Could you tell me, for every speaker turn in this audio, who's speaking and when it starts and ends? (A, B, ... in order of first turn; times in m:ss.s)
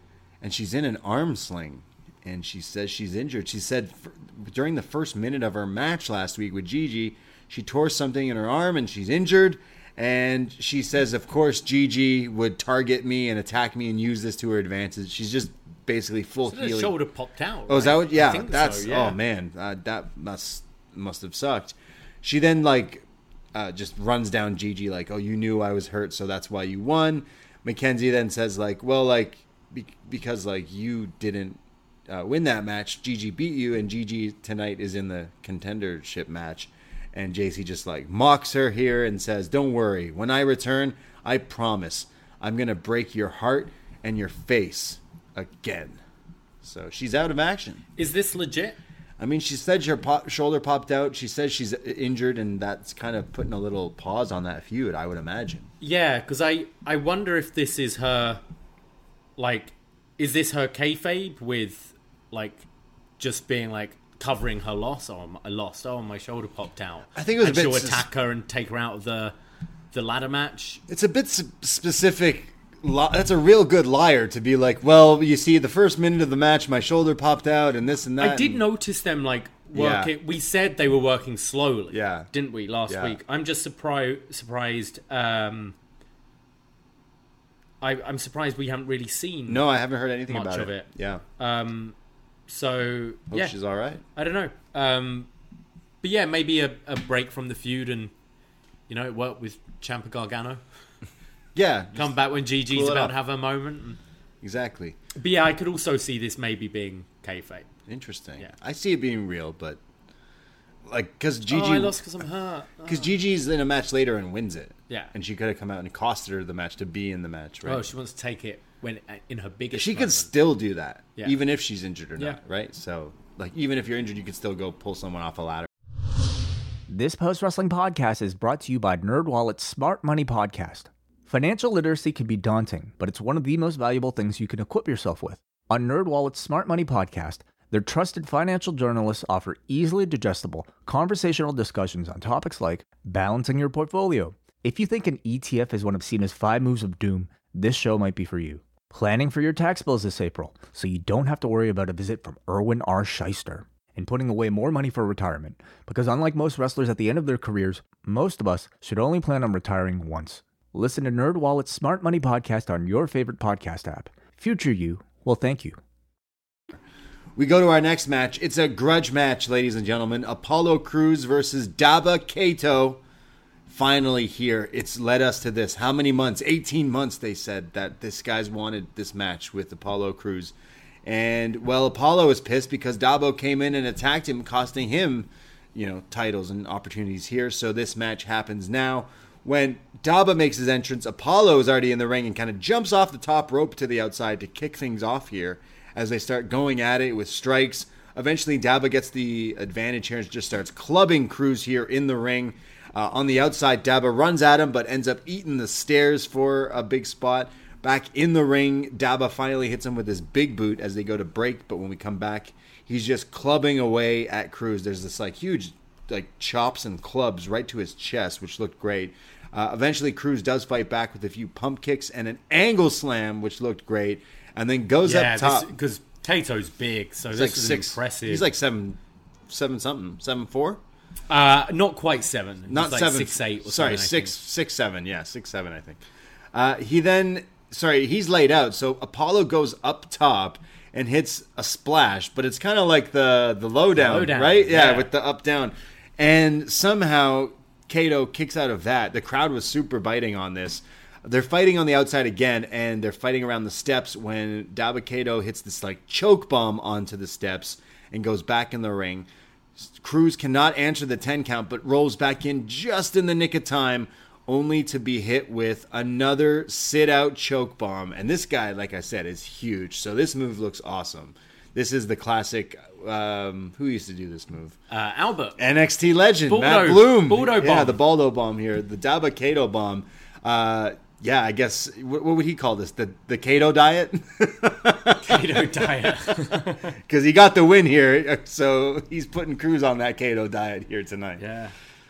0:00.4-0:17.0 A
0:16.4-0:19.2 B
0:17.7-0:46.0 A
0:46.6-0:47.8 A
0:48.0-0:48.8 B
0:49.2-0:55.7 A
0:55.8-0:58.4 B
0:59.4-1:02.6 B
1:03.2-1:09.3 B
1:07.1-1:08.0 A
1:09.9-1:10.8 B
1:10.9-1:18.6 A
1:18.2-1:25.8 B
1:19.7-1:20.1 A
1:21.9-1:22.3 A
1:22.9-1:23.2 A
1:27.8-1:29.6 B
1:29.5-1:31.2 A
1:30.3-1:31.9 B
1:32.5-1:33.5 B
1:33.3-1:34.0 A
1:34.1-1:35.3 B
1:36.0-1:38.1 B
1:38.9-1:40.6 B
1:41.5-1:43.1 A
1:42.0-1:44.0 B
1:44.4-1:45.0 A
1:45.1-1:47.7 B
1:47.9-1:49.8 A
1:50.8-1:52.0 A
1:51.5-1:53.1 B
1:52.8-1:57.8 A
1:57.6-2:00.3 B
1:59.7-2:05.7 A
2:06.9-2:45.8 C
2:47.4-2:53.0 A
2:53.7-3:00.5 A
3:01.0-3:45.7 A
3:45.0-3:48.4 B
3:47.3-3:50.8 A
3:51.3-3:54.4 B
3:52.7-3:56.0 A
3:56.5-4:19.3 A
4:03.9-4:05.1 B
4:19.8-4:34.8 A
4:34.9-4:35.6 B
4:35.6-4:51.4 A
4:36.5-4:38.0 B
4:45.2-4:46.9 B
4:51.4-4:51.7 B